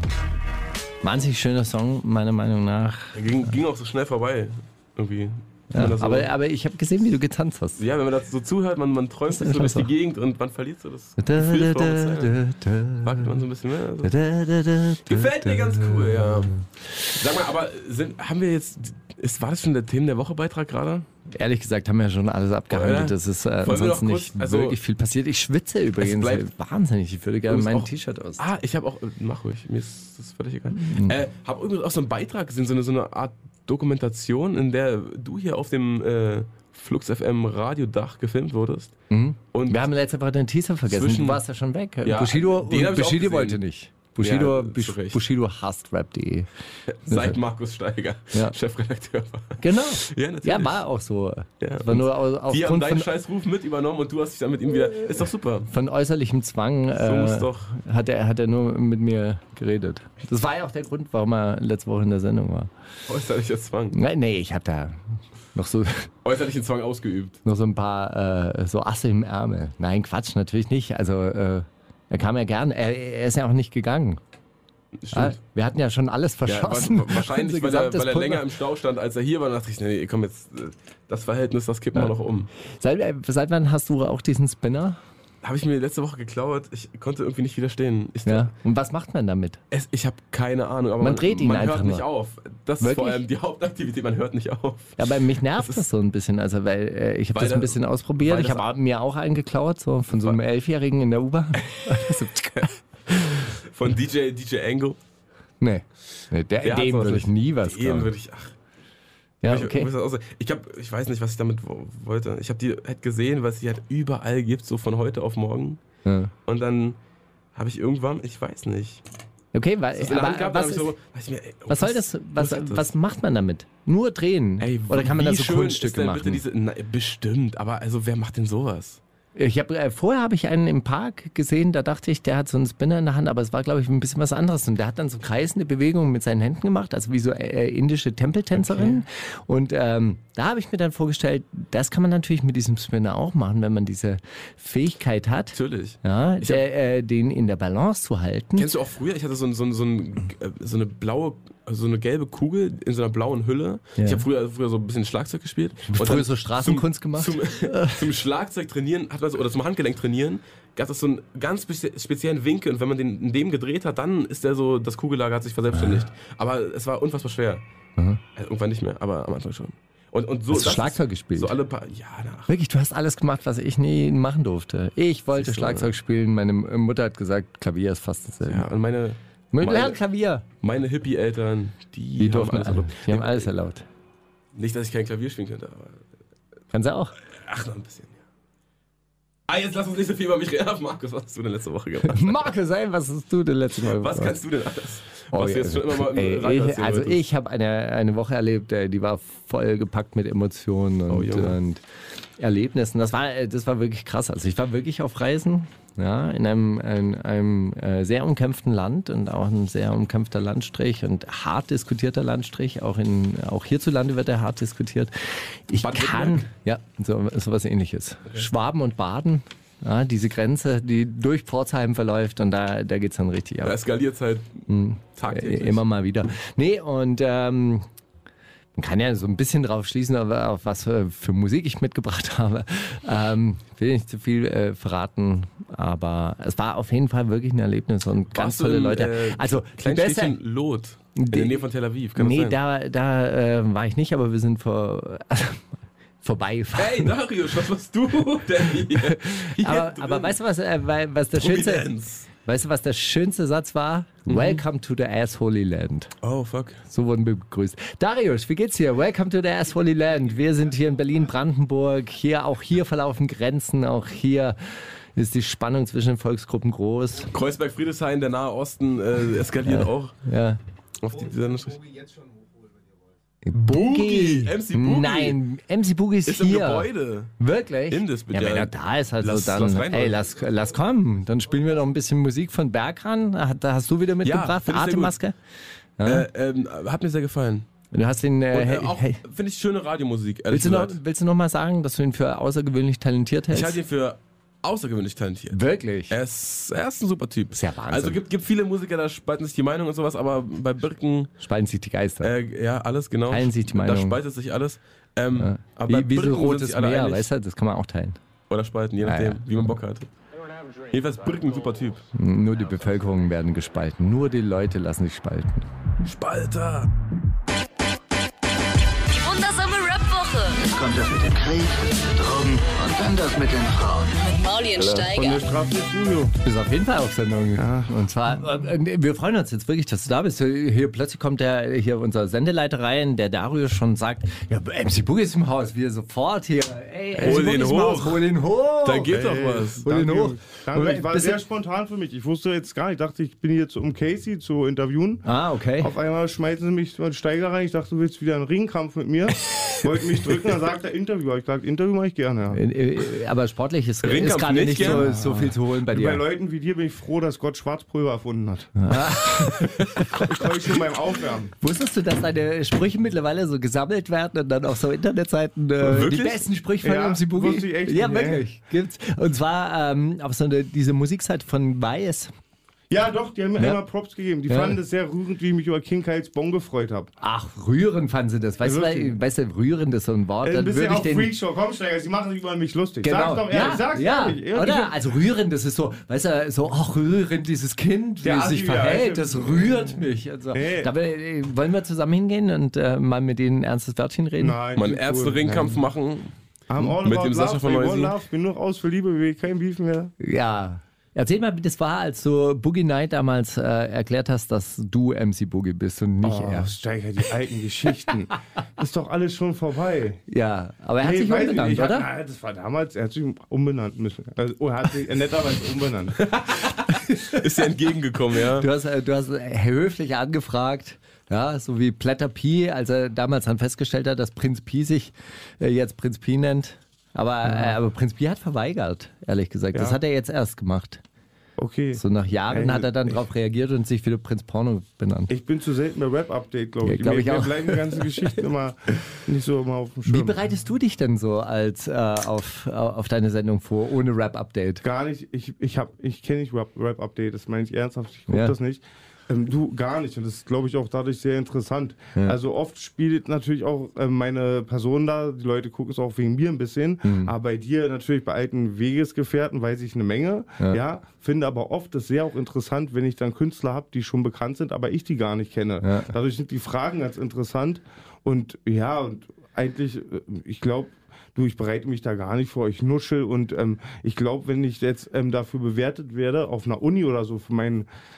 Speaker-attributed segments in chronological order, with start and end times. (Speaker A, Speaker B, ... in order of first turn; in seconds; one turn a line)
Speaker A: 1.0-3.2
Speaker B: 3.1-6.3
Speaker A: 5.7-7.8
Speaker B: 7.8-12.4
Speaker A: 9.3-9.9
Speaker A: 11.2-13.3
Speaker B: 13.0-14.1
Speaker A: 14.0-16.6
Speaker B: 15.1-21.1
Speaker A: 21.4-28.4
Speaker B: 22.7-24.8
Speaker B: 26.0-26.5
Speaker B: 27.5-39.0
Speaker A: 30.8-31.1
Speaker A: 39.1-46.5
Speaker B: 39.5-39.9
Speaker B: 40.9-41.4
Speaker B: 42.0-43.6
Speaker B: 44.2-45.2
Speaker B: 46.9-50.8
Speaker A: 47.1-47.4
Speaker A: 49.6-53.1
Speaker B: 51.6-55.7
Speaker A: 55.7-62.7
Speaker B: 57.0-57.7
Speaker B: 63.1-64.0
Speaker A: 63.9-65.0
Speaker A: 65.5-66.1
Speaker B: 66.2-67.4
Speaker A: 67.5-74.2
Speaker B: 75.0-75.4
Speaker A: 75.1-78.5
Speaker B: 76.5-82.5
Speaker A: 82.7-85.0
Speaker B: 85.4-88.5
Speaker A: 88.3-89.6
Speaker B: 89.7-95.8
Speaker A: 91.0-92.0
Speaker A: 92.8-93.3
Speaker A: 95.0-103.4
Speaker B: 97.3-98.7
Speaker B: 100.1-100.4
Speaker B: 103.3-105.0
Speaker A: 105.6-108.1
Speaker B: 106.6-108.5
Speaker A: 109.4-109.9
Speaker B: 109.4-115.8
Speaker A: 116.0-116.3
Speaker B: 116.5-117.0
Speaker B: 117.5-119.0
Speaker A: 119.5-120.9
Speaker B: 120.0-122.9
Speaker A: 121.7-126.4
Speaker B: 124.6-129.0
Speaker A: 129.4-148.7
Speaker B: 138.6-139.0
Speaker B: 145.5-146.6
Speaker B: 148.6-167.6
Speaker A: 154.0-154.2
Speaker A: 155.9-158.1
Speaker A: 165.7-166.1
Speaker B: 168.4-172.5
Speaker A: 170.5-171.5
Speaker A: 172.5-178.7
Speaker B: 175.3-175.9
Speaker B: 178.4-180.0
Speaker A: 179.5-180.4
Speaker B: 180.6-183.5
Speaker A: 182.2-183.8
Speaker B: 184.6-186.0
Speaker A: 186.7-187.2
Speaker B: 187.3-188.2
Speaker B: 189.5-192.5
Speaker A: 192.1-194.4
Speaker B: 193.8-197.2
Speaker A: 195.3-201.8
Speaker B: 201.1-201.6
Speaker A: 202.4-215.1
Speaker A: 215.7-223.8
Speaker B: 215.8-216.5
Speaker B: 223.6-224.6
Speaker A: 224.7-227.9
Speaker B: 225.2-225.8
Speaker A: 228.8-240.4
Speaker B: 238.3-242.6
Speaker A: 241.2-241.6
Speaker A: 242.2-245.7
Speaker A: 246.2-247.1
Speaker B: 246.8-250.4
Speaker A: 248.9-256.1
Speaker B: 251.4-252.3
Speaker B: 254.3-254.6
Speaker B: 256.2-256.8
Speaker A: 256.9-264.6
Speaker A: 265.1-267.3
Speaker B: 267.3-270.2
Speaker A: 269.7-270.6
Speaker B: 271.0-272.1
Speaker A: 273.4-285.4
Speaker B: 273.6-275.4
Speaker B: 276.3-280.2
Speaker B: 284.2-285.1
Speaker A: 286.0-286.3
Speaker B: 286.1-287.7
Speaker A: 287.9-289.2
Speaker B: 288.5-291.0
Speaker A: 290.5-293.8
Speaker B: 293.5-295.6
Speaker A: 295.5-296.1
Speaker B: 296.1-301.3
Speaker A: 297.5-298.2
Speaker A: 301.4-302.3
Speaker B: 302.2-307.3
Speaker A: 303.3-304.2
Speaker A: 305.4-308.2
Speaker B: 308.5-310.1
Speaker A: 309.0-309.4
Speaker B: 310.9-312.1
Speaker A: 312.1-315.7
Speaker B: 316.0-316.9
Speaker C: 319.1-320.6
Speaker D: 320.6-324.2
Speaker C: 324.2-325.4
Speaker E: 324.8-326.3
Speaker A: 326.4-339.2
Speaker E: 327.6-327.9
Speaker B: 337.2-338.3
Speaker B: 338.8-339.9
Speaker E: 339.1-345.3
Speaker A: 339.9-341.4
Speaker A: 345.2-345.9
Speaker E: 345.8-352.6
Speaker A: 352.5-356.2
Speaker B: 354.0-355.1
Speaker E: 354.8-358.7
Speaker A: 358.8-360.2
Speaker B: 359.8-360.0
Speaker E: 360.1-361.5
Speaker A: 361.6-372.3
Speaker B: 365.8-366.4
Speaker E: 366.8-368.4
Speaker E: 372.9-377.1
Speaker A: 374.5-374.8
Speaker A: 377.2-381.3
Speaker E: 378.6-379.2
Speaker E: 380.4-384.9
Speaker A: 383.0-394.6
Speaker E: 388.2-390.9
Speaker E: 394.4-395.8
Speaker B: 394.8-396.3
Speaker E: 396.7-400.1
Speaker B: 397.0-398.2
Speaker A: 400.2-406.7
Speaker E: 406.2-410.2
Speaker A: 410.3-412.1
Speaker E: 411.0-416.2
Speaker B: 416.2-418.7
Speaker A: 416.9-417.4
Speaker A: 418.5-431.0
Speaker E: 427.5-427.7
Speaker E: 429.7-430.0
Speaker E: 431.6-433.2
Speaker A: 431.9-435.3
Speaker E: 435.3-440.4
Speaker A: 436.8-438.3
Speaker A: 440.1-444.8
Speaker E: 444.8-477.9
Speaker A: 448.3-448.5
Speaker A: 457.0-457.3
Speaker A: 465.8-466.1